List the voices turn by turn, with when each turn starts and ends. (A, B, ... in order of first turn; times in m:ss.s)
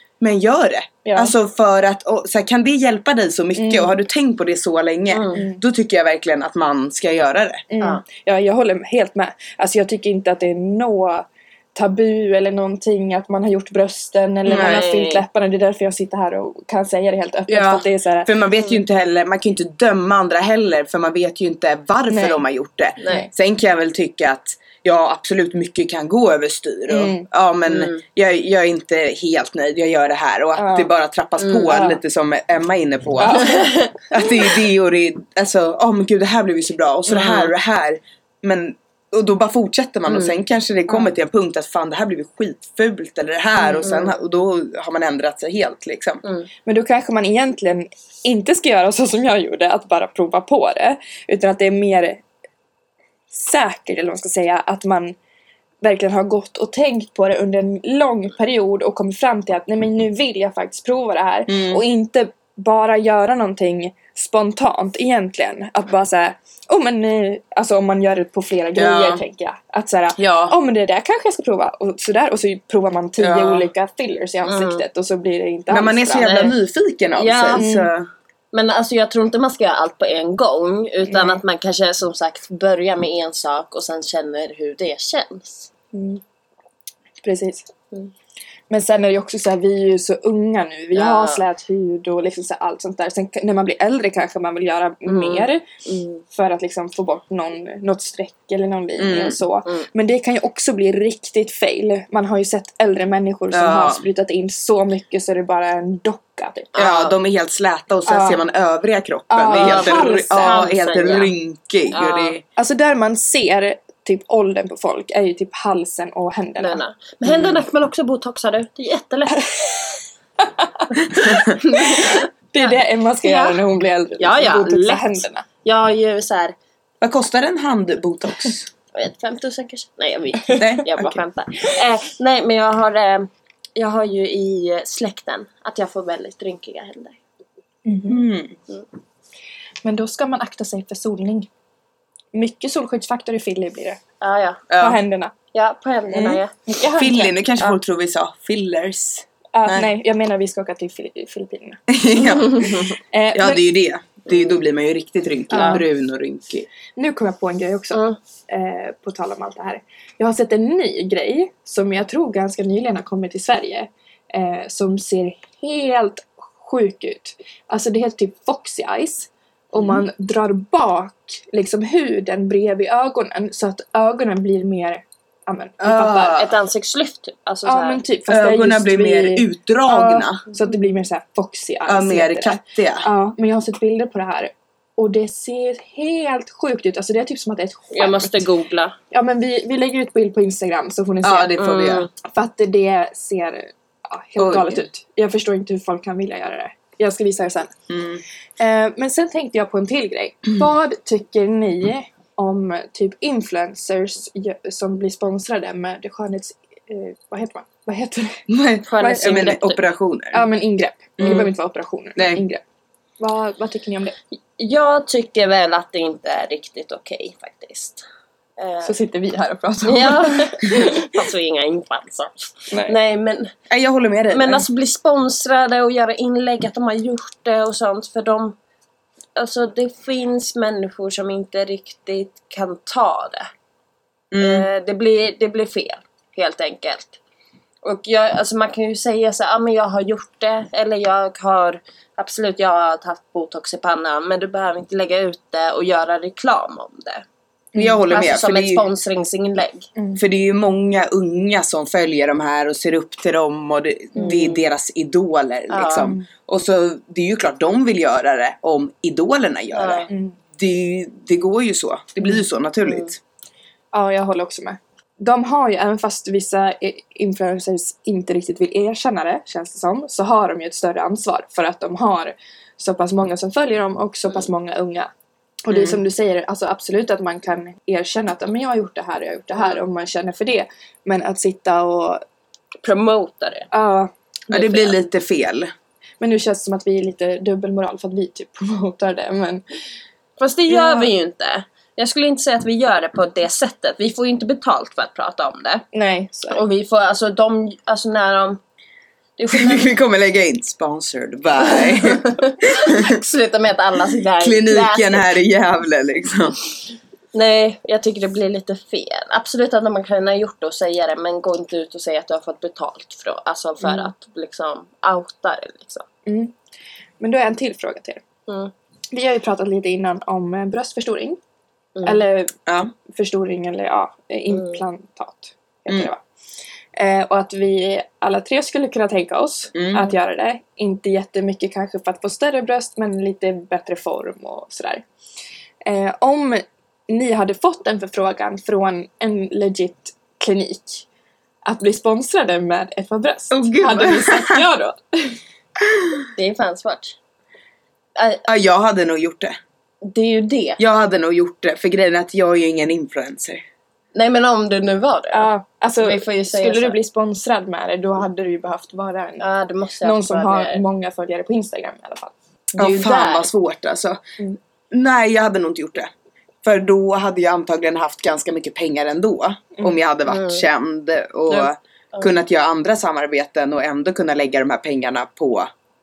0:00.2-0:07.6 A
0:01.0-0:01.3 B
0:03.6-0:03.9 B
0:05.1-0:05.4 C
0:05.3-0:05.6 B
0:07.7-0:18.3 B
0:14.4-0:15.2 C
0:14.5-0:14.8 A
0:17.5-0:46.2 A
0:22.1-0:22.4 B
0:23.0-0:23.3 C
0:26.9-0:27.3 B
0:27.7-0:28.0 C
0:30.6-0:30.9 B
0:31.4-0:31.7 C
0:31.7-0:32.0 B
0:33.2-0:33.7 B
0:33.3-0:33.9 C
0:37.1-0:37.5 C
0:40.1-0:40.4 C
0:46.6-0:52.2 B
0:53.3-0:55.2 B
0:55.8-1:16.5 B
1:01.5-1:01.8 A
1:08.8-1:09.2 A
1:10.2-1:10.5 A
1:13.2-1:13.7 A
1:14.4-1:14.8 C
1:15.7-1:18.1 A
1:16.1-1:16.5 C
1:17.2-1:17.6 C
1:17.6-1:17.9 B
1:18.5-1:25.7 C
1:21.1-1:21.4 B
1:25.9-1:26.2 B
1:27.2-1:27.7 B
1:28.7-1:35.6 B
1:30.9-1:31.4 C
1:35.0-1:36.2 C
1:36.3-1:46.7 B
1:39.0-1:39.4 A
1:43.5-1:44.0 A
1:46.7-1:47.1 C
1:46.8-1:52.4 A
1:48.0-1:48.4 B
1:49.3-1:50.7 B
1:49.5-1:51.3 C
1:51.9-1:52.4 C
1:52.6-1:56.8 B
1:56.6-1:59.9 C
1:57.3-1:57.6 A
2:00.6-2:00.9 B
2:01.1-2:03.6 C
2:01.2-2:01.5 A
2:01.8-2:05.4 B
2:04.2-2:06.5 C
2:07.0-2:08.7 A
2:08.9-2:17.2 C
2:10.6-2:11.2 A
2:17.8-2:18.2 B
2:18.1-2:18.6 A
2:19.8-2:21.5 B
2:22.3-2:24.0 B
2:24.2-2:24.6 C
2:24.7-2:25.0 A
2:24.8-2:25.3 B
2:25.5-2:26.5 C
2:26.1-2:27.4 B
2:27.0-2:29.9 A
2:29.5-2:33.6 B
2:31.9-2:36.7 A
2:32.3-2:32.9 C
2:35.5-2:35.8 B
2:35.5-2:35.8 C
2:37.0-2:56.4 B
2:37.9-2:38.2 C
2:49.7-2:50.0 A
2:55.8-2:56.5 A
2:56.3-2:58.0 C
2:57.6-3:08.4 B
2:58.3-3:00.4 A
3:01.8-3:03.1 A
3:07.9-3:09.0 C
3:09.1-3:11.6 B
3:11.2-3:12.1 A
3:11.6-3:12.1 C
3:12.2-3:17.7 B
3:14.4-3:14.9 A
3:17.9-3:18.2 A
3:18.6-3:28.4 B
3:28.5-3:30.4 A
3:28.9-3:29.8 C
3:29.0-3:29.5 B
3:30.3-3:32.6 B
3:31.2-3:31.5 A
3:32.2-3:32.4 A
3:33.2-3:34.2 B
3:34.6-3:38.0 C
3:38.6-3:38.9 C
3:38.8-3:41.1 B
3:39.8-3:43.5 C
3:43.7-3:44.6 A
3:44.3-3:48.6 C
3:49.4-3:53.5 C
3:54.3-3:54.7 A
3:54.4-3:57.2 C
3:57.8-4:07.2 C
4:07.7-4:08.0 B
4:07.8-4:08.8 A
4:08.1-4:09.9 C
4:10.0-4:10.2 B
4:10.2-4:23.2 A
4:14.2-4:14.6 C
4:15.7-4:16.2 C
4:16.0-4:16.2 B
4:19.7-4:20.1 C
4:20.1-4:20.4 B
4:23.9-4:35.1 B
4:35.6-4:42.2 B
4:42.8-4:43.7 C
4:43.7-4:44.1 B
4:44.5-4:45.7 A
4:44.5-4:44.9 C
4:46.2-4:49.6 B
4:50.4-4:55.8 C
4:50.7-4:51.1 B
4:55.9-4:56.6 B
4:56.5-4:58.6 C
4:59.4-4:59.9 C
4:59.5-5:03.1 A
5:01.8-5:05.2 C
5:04.4-5:06.6 A
5:07.3-5:16.0 C
5:13.8-5:14.1 B
5:16.2-5:16.5 B
5:17.2-5:18.2 B
5:18.5-5:18.7 C
5:19.1-5:21.4 B
5:22.0-5:22.2 C
5:22.0-5:22.5 B
5:22.7-5:22.9 A
5:23.0-5:26.2 B
5:24.5-5:24.8 C
5:26.9-5:35.0 B
5:29.7-5:30.1 A
5:35.8-5:41.0 B
5:41.6-5:45.4 B
5:43.5-5:44.6 A
5:46.0-5:46.2 A
5:46.4-5:47.2 C
5:48.2-5:48.4 C
5:48.4-5:49.6 A
5:50.0-5:50.8 C
5:50.8-5:53.6 A
5:54.1-5:57.0 C
5:55.3-5:59.4 B
5:59.4-6:00.8 C
6:00.0-6:02.3 B
6:02.8-6:03.5 C
6:02.8-6:04.2 A
6:04.9-6:06.1 A
6:06.6-6:15.7 A
6:10.3-6:10.6 C
6:11.5-6:12.3 C